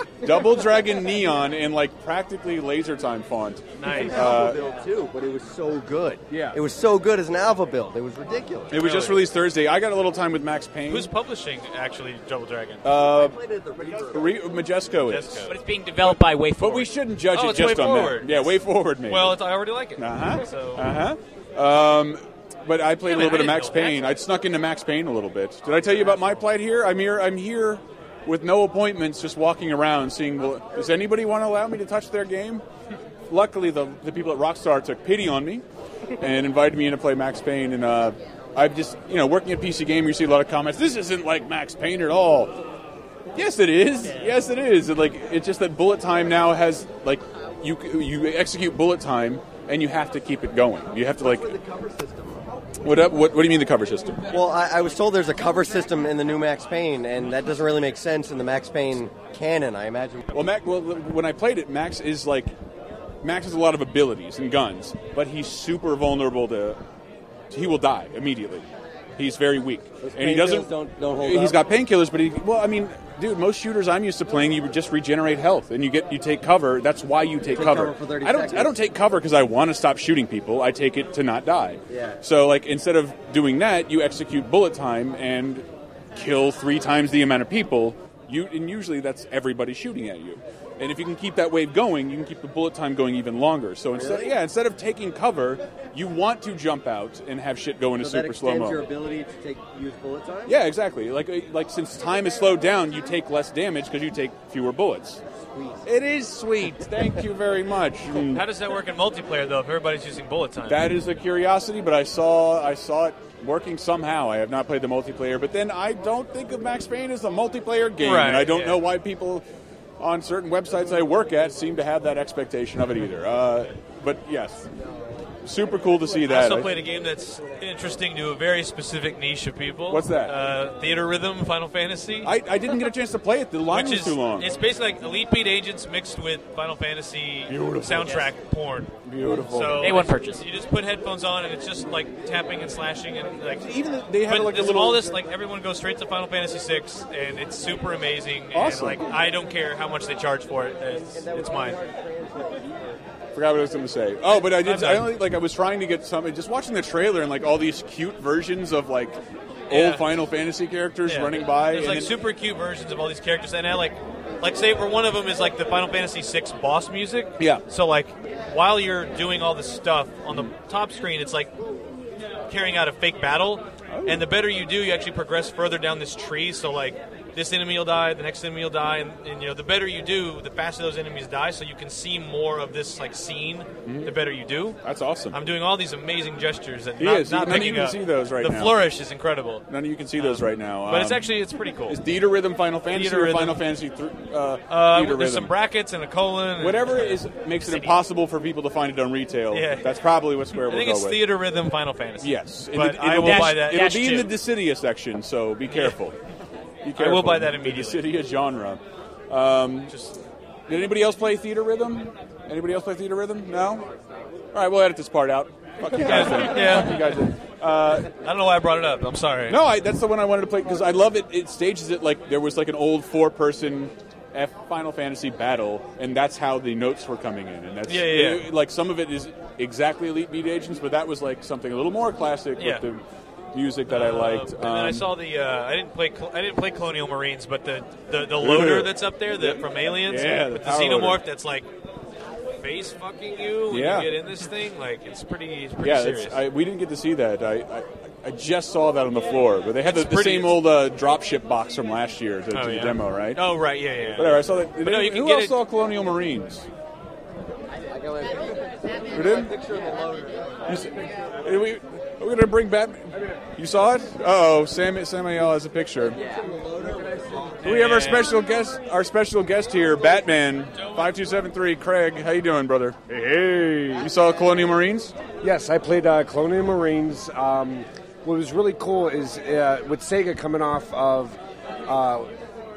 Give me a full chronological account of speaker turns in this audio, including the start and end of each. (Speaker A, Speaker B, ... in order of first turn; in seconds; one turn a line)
Speaker A: 0.2-4.6
Speaker B: 3.8-4.4
Speaker C: 4.0-8.8
Speaker A: 6.3-6.6
Speaker A: 8.7-11.1
Speaker B: 8.7-9.3
Speaker B: 10.9-12.8
Speaker A: 12.8-13.4
Speaker C: 12.9-14.4
Speaker A: 14.1-15.5
Speaker B: 15.1-15.5
Speaker D: 15.4-16.9
Speaker A: 16.1-19.4
Speaker B: 17.3-20.9
Speaker A: 20.0-32.6
Speaker B: 23.0-24.2
Speaker B: 25.9-26.2
Speaker A: 33.3-35.6
Speaker A: 36.2-42.5
Speaker A: 43.3-51.5
Speaker C: 51.2-52.5
Speaker A: 52.8-54.3
Speaker C: 54.3-60.3
Speaker A: 60.3-62.5
Speaker A: 63.2-66.8
Speaker A: 67.5-98.8
Speaker C: 70.0-71.6
Speaker C: 77.5-78.8
Speaker C: 81.9-82.2
Speaker C: 93.9-94.3
Speaker C: 98.0-100.5
Speaker A: 100.5-105.2
Speaker C: 105.5-105.8
Speaker A: 105.8-108.4
Speaker B: 108.1-110.9
Speaker A: 110.7-119.4
Speaker B: 118.0-118.8
Speaker A: 120.0-124.7
Speaker A: 125.4-126.7
Speaker B: 126.3-132.3
Speaker A: 129.9-130.3
Speaker A: 132.2-134.5
Speaker B: 133.7-138.9
Speaker A: 137.5-138.2
Speaker A: 139.1-139.9
Speaker B: 139.4-143.7
Speaker D: 139.8-140.4
Speaker A: 143.6-145.1
Speaker B: 144.2-151.8
Speaker A: 148.5-149.1
Speaker C: 151.4-152.5
Speaker A: 153.3-162.1
Speaker B: 154.3-155.2
Speaker B: 159.7-160.1
Speaker B: 161.1-171.5
Speaker B: 172.5-184.8
Speaker A: 173.9-174.2
Speaker A: 183.8-184.1
Speaker A: 184.8-185.4
Speaker B: 185.3-189.6
Speaker A: 187.0-188.8
Speaker A: 189.7-191.3
Speaker B: 190.2-192.0
Speaker A: 191.9-195.5
Speaker B: 192.9-193.6
Speaker B: 194.7-197.8
Speaker A: 196.6-201.2
Speaker B: 199.5-200.0
Speaker B: 200.5-204.3
Speaker A: 202.2-206.2
Speaker D: 203.1-204.2
Speaker B: 205.7-206.0
Speaker A: 206.8-209.9
Speaker B: 207.0-208.2
Speaker B: 209.9-210.2
Speaker A: 210.7-213.8
Speaker A: 214.5-218.1
Speaker B: 216.0-217.1
Speaker B: 218.2-219.6
Speaker A: 219.5-233.0
Speaker B: 227.9-228.5
Speaker B: 232.6-232.8
Speaker A: 233.5-235.1
Speaker B: 233.9-241.7
Speaker A: 238.4-241.2
Speaker B: 242.6-246.4
Speaker A: 243.7-244.1
Speaker A: 245.8-253.4
Speaker B: 249.8-250.6
Speaker B: 252.5-255.6
Speaker A: 254.1-256.7
Speaker C: 258.0-258.4
Speaker A: 259.1-259.5
Speaker C: 259.8-260.4
Speaker A: 260.6-266.2
Speaker B: 267.6-268.3
Speaker A: 267.6-275.1
Speaker E: 275.4-282.3